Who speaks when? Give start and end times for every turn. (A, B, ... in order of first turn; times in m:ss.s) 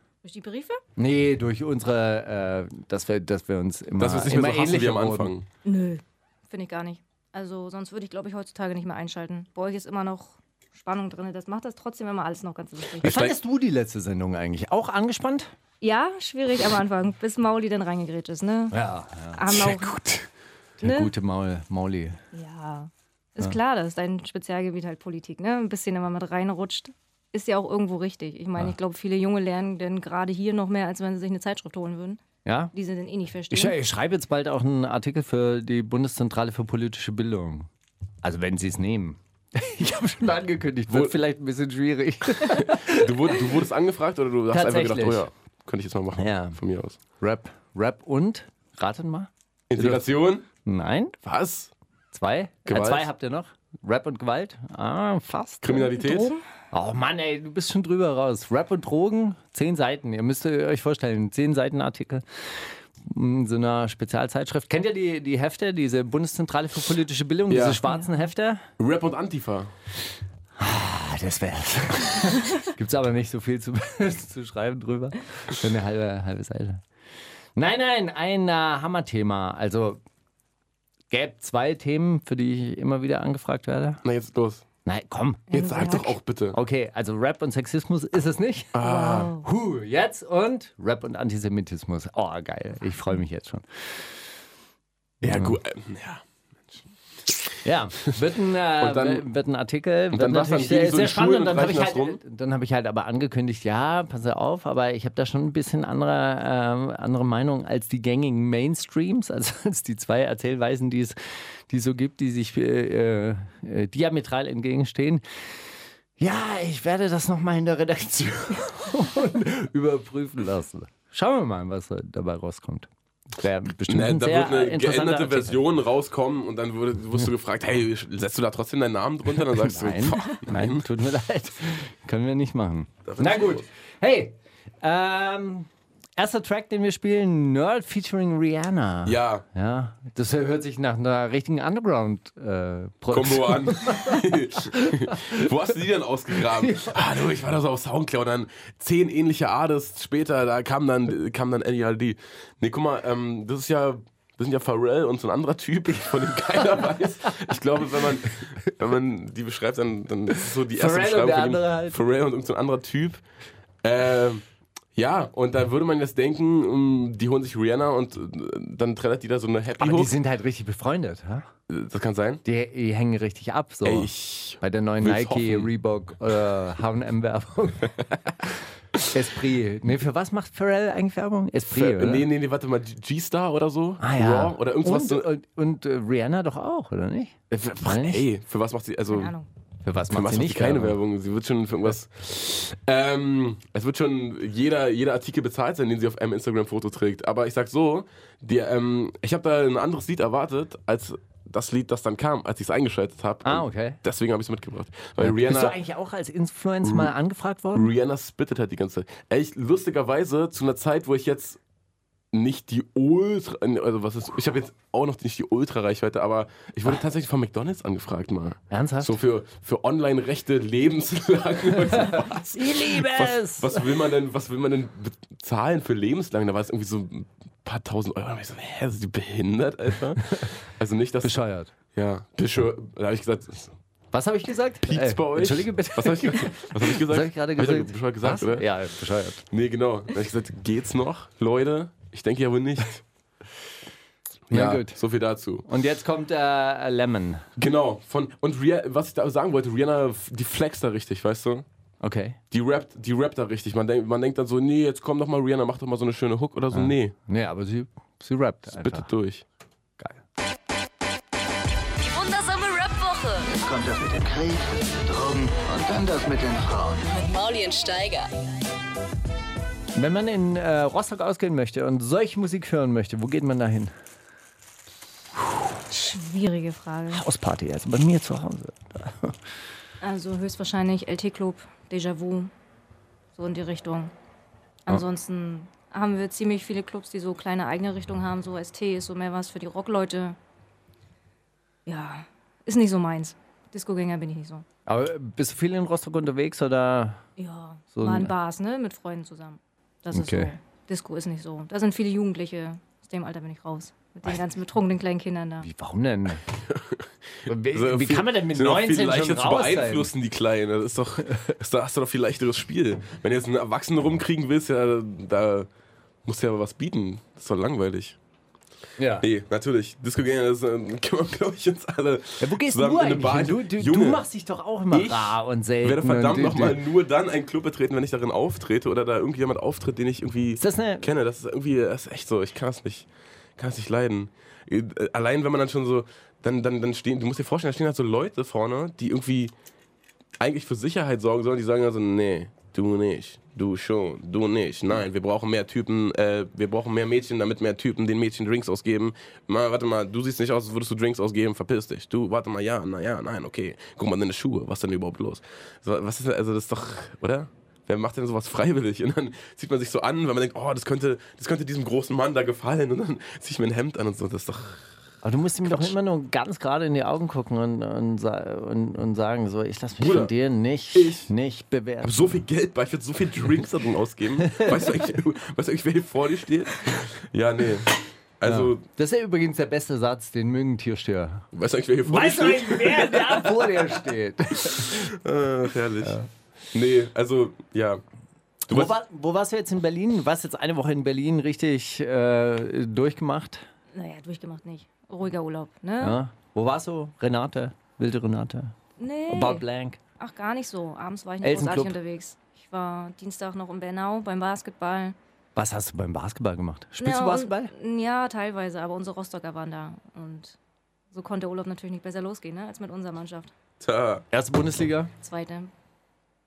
0:00.2-0:00.8 A
0:01.0-0:05.3 B
0:04.0-0:05.5 C
0:05.6-0:13.2 A
0:13.0-0:13.4 C
0:13.0-0:15.5 B
0:15.8-0:18.8 A
0:18.7-0:19.5 B
0:19.4-0:20.0 A
0:19.5-0:20.2 C
0:20.8-0:22.2 B
0:20.8-0:21.1 A
0:22.3-0:32.2 A
0:32.4-0:32.7 B
0:32.7-0:33.8 A
0:33.5-0:37.7 B
0:38.2-0:43.5 B
0:40.9-0:41.2 C
0:42.4-0:47.0 C
0:44.5-0:45.3 B
0:46.2-0:46.6 B
0:47.2-0:51.2 B
0:49.7-0:50.4 C
0:51.2-0:51.7 C
0:52.1-0:55.9 B
0:52.7-0:53.1 C
0:55.6-0:56.3 C
0:55.9-0:56.4 A
0:56.7-1:08.6 B
1:07.5-1:07.8 C
1:08.8-1:09.7 C
1:10.6-1:16.8 B
1:17.6-1:20.0 B
1:21.1-1:24.0 B
1:24.0-1:24.6 C
1:24.8-1:34.0 B
1:25.5-1:26.1 A
1:25.5-1:26.6 C
1:28.7-1:29.3 C
1:28.8-1:29.4 A
1:35.2-1:37.5 C
1:35.2-1:35.6 B
1:37.6-1:51.2 B
1:38.8-1:39.3 C
1:40.1-1:42.2 C
1:51.7-1:55.2 B
1:56.2-2:05.6 B
2:03.9-2:10.9 C
2:09.5-2:25.5 B
2:13.0-2:13.7 C
2:19.0-2:19.4 C
2:23.1-2:43.2 C
2:26.4-2:27.2 B
2:40.7-2:42.0 B
2:43.8-2:50.2 C
2:49.8-2:51.5 B
2:51.7-2:52.4 C
2:52.4-2:58.6 B
2:53.8-2:55.7 C
2:59.1-3:02.3 B
3:01.7-3:05.3 C
3:04.0-3:08.3 B
3:07.5-3:09.3 C
3:09.1-3:09.5 A
3:09.8-3:11.0 B
3:10.1-3:25.8 C
3:23.4-3:24.0 B
3:25.2-3:27.9 B
3:26.8-3:27.1 C
3:27.7-3:31.6 C
3:32.3-3:51.4 C
3:38.7-3:39.2 B
3:41.9-3:43.8 B
3:51.2-3:51.7 B
3:51.9-3:53.8 C
3:54.1-3:59.4 B
3:54.8-3:58.7 C
3:59.5-4:03.0 C
4:04.5-4:05.6 C
4:04.5-4:05.0 B
4:05.6-4:07.5 B
4:07.6-4:11.6 C
4:12.0-4:12.4 B
4:12.5-4:17.1 C
4:16.7-4:19.1 B
4:18.7-4:19.4 C
4:22.0-4:23.5 D
4:23.6-4:27.1 E
4:27.1-4:28.3 D
4:30.0-4:33.9 B
4:35.9-4:37.2 A
4:37.1-4:39.4 B
4:40.0-4:42.5 A
4:43.4-4:44.1 A
4:44.9-4:50.4 A
4:51.9-4:54.6 A
4:54.9-4:57.2 B
4:57.4-5:05.7 A
4:57.9-4:58.3 B
5:00.1-5:00.5 B
5:05.6-5:06.4 B
5:06.5-5:15.7 C
5:07.5-5:10.1 B
5:11.3-5:11.5 B
5:16.2-5:18.2 C
5:19.0-5:19.3 B
5:19.2-5:24.2 C
5:22.4-5:26.8 B
5:24.9-5:39.5 C
5:30.6-5:31.1 B
5:40.4-6:04.9 C
6:05.2-6:12.4 B
6:05.6-6:05.9 C
6:10.0-6:10.3 C
6:10.9-6:11.3 C
6:12.0-6:18.8 C
6:14.4-6:14.8 B
6:18.5-6:21.5 B
6:21.5-6:26.2 C
6:22.0-6:25.1 B
6:26.0-6:26.3 B
6:26.7-6:28.0 C
6:28.7-6:28.9 C
6:28.7-6:33.7 B
6:33.9-6:36.2 A
6:36.0-6:38.8 B
6:39.0-6:39.6 A
6:39.3-6:40.0 B
6:40.2-6:45.2 A
6:41.4-6:42.0 B
6:45.6-6:47.7 B
6:47.0-6:50.6 A
6:51.1-6:53.5 A
6:53.8-6:54.3 C
6:54.3-6:55.1 B
6:55.2-6:55.7 A